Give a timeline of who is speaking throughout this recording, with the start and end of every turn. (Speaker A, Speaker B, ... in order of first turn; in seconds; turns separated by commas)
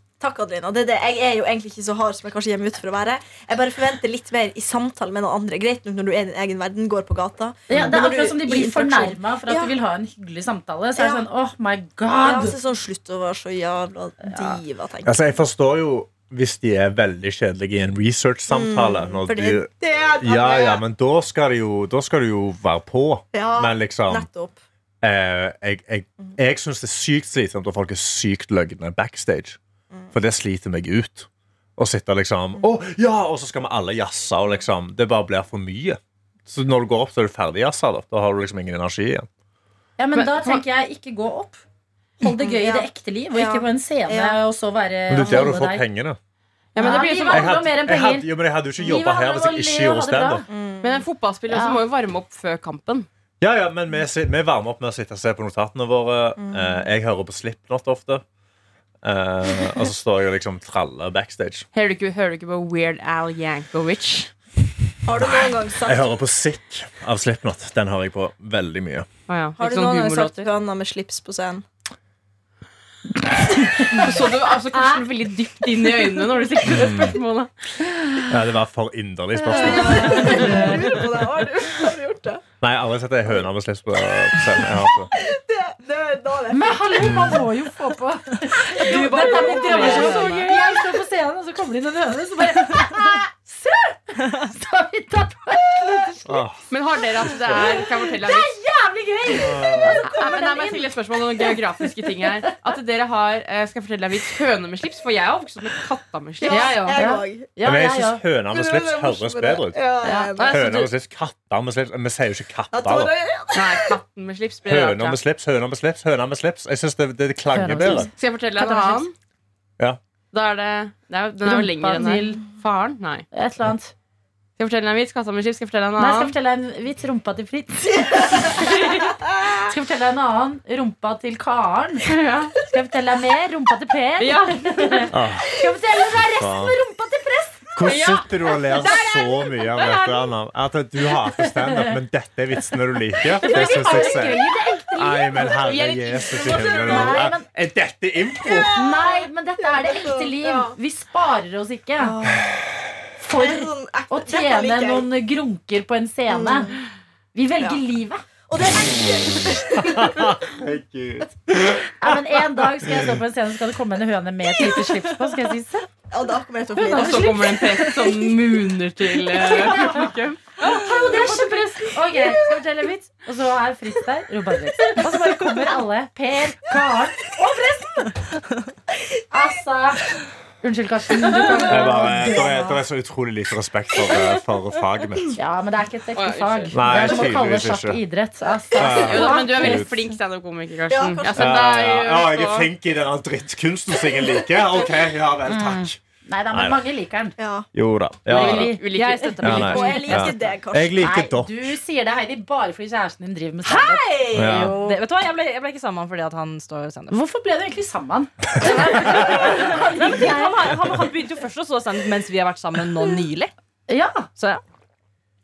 Speaker A: 0.2-9.8, Speaker B: 7.7-12.6, Speaker A: 11.0-11.3, Speaker A: 12.2-15.2, Speaker C: 15.1-24.3, Speaker A: 18.5-20.8, Speaker A: 23.3-24.6, Speaker C: 25.0-29.6, Speaker C: 30.1-39.3, Speaker B: 40.0-41.6, Speaker D: 40.2-40.6, Speaker B: 42.2-45.9, Speaker A: 42.3-44.4, Speaker C: 45.1-46.2, Speaker D: 46.8-47.6, Speaker B: 46.8-50.5, Speaker C: 47.3-50.4, Speaker A: 50.5-51.0, Speaker D: 50.8-53.1, Speaker B: 51.5-51.8, Speaker C: 53.4-58.2, Speaker A: 56.4-56.8, Speaker C: 59.0-61.7, Speaker D: 61.7-64.3, Speaker A: 65.0-66.1, Speaker C: 65.2-69.1, Speaker D: 69.3-70.5, Speaker A: 69.6-71.7, Speaker D: 73.9-77.5, Speaker B: 74.7-75.0, Speaker C: 76.7-77.2, Speaker C: 78.3-80.5, Speaker A: 79.5-82.4, Speaker D: 80.0-80.9, Speaker C: 82.6-85.1, Speaker A: 83.3-87.2, Speaker B: 86.5-96.5, Speaker C: 87.0-87.4, Speaker D: 88.7-90.5, Speaker A: 88.7-89.9, Speaker C: 96.2-96.6, Speaker D: 96.7-98.5, Speaker C: 97.4-97.7, Speaker B: 97.5-101.0, Speaker C: 99.3-100.0, Speaker D: 100.0-107.0, Speaker A: 106.4-107.5, Speaker E: 106.5-107.0, Speaker B: 107.0-108.2, Speaker C: 107.6-109.9, Speaker A: 108.5-110.6, Speaker B: 110.0-110.5, Speaker C: 110.4-113.1, Speaker D: 110.4-110.8, Speaker A: 112.7-114.0, Speaker D: 113.5-115.2, Speaker C: 114.7-118.1, Speaker B: 117.5-119.1, Speaker D: 118.2-119.1, Speaker D: 120.3-123.3, Speaker B: 121.4-122.4, Speaker B: 123.3-123.9, Speaker D: 124.6-126.3, Speaker B: 126.0-132.1, Speaker D: 132.0-132.6, Speaker B: 132.7-137.8, Speaker D: 134.2-135.1, Speaker C: 135.1-136.8, Speaker C: 137.8-144.4, Speaker D: 137.8-140.3, Speaker B: 141.7-141.9, Speaker D: 143.4-144.8, Speaker B: 143.4-145.6, Speaker C: 144.9-148.7, Speaker D: 145.4-147.3, Speaker B: 146.3-147.5, Speaker A: 148.4-150.8, Speaker B: 148.7-152.2, Speaker A: 152.0-152.7, Speaker B: 153.2-156.8, Speaker A: 153.3-155.1, Speaker A: 156.3-156.7, Speaker B: 157.3-158.2, Speaker A: 158.5-160.3, Speaker C: 159.9-161.8, Speaker B: 162.0-165.9, Speaker A: 166.1-167.8, Speaker B: 166.8-167.5, Speaker D: 166.9-170.9, Speaker B: 169.3-178.2, Speaker B: 179.3-182.8, Speaker C: 181.7-185.4, Speaker B: 185.3-189.8, Speaker D: 186.2-186.7, Speaker C: 186.7-188.0, Speaker C: 188.8-190.0, Speaker D: 188.8-192.7, Speaker A: 190.9-191.6, Speaker C: 191.3-196.0, Speaker B: 195.5-197.3, Speaker C: 196.5-196.9, Speaker A: 197.4-197.7, Speaker C: 197.7-198.8, Speaker D: 198.3-200.1, Speaker B: 198.3-198.8, Speaker E: 198.9-200.6, Speaker C: 199.4-201.8, Speaker A: 199.6-201.1, Speaker B: 201.0-205.0, Speaker E: 203.6-207.2, Speaker A: 204.1-204.6, Speaker C: 204.3-204.8, Speaker B: 207.1-211.0, Speaker E: 208.6-213.5, Speaker B: 213.9-214.3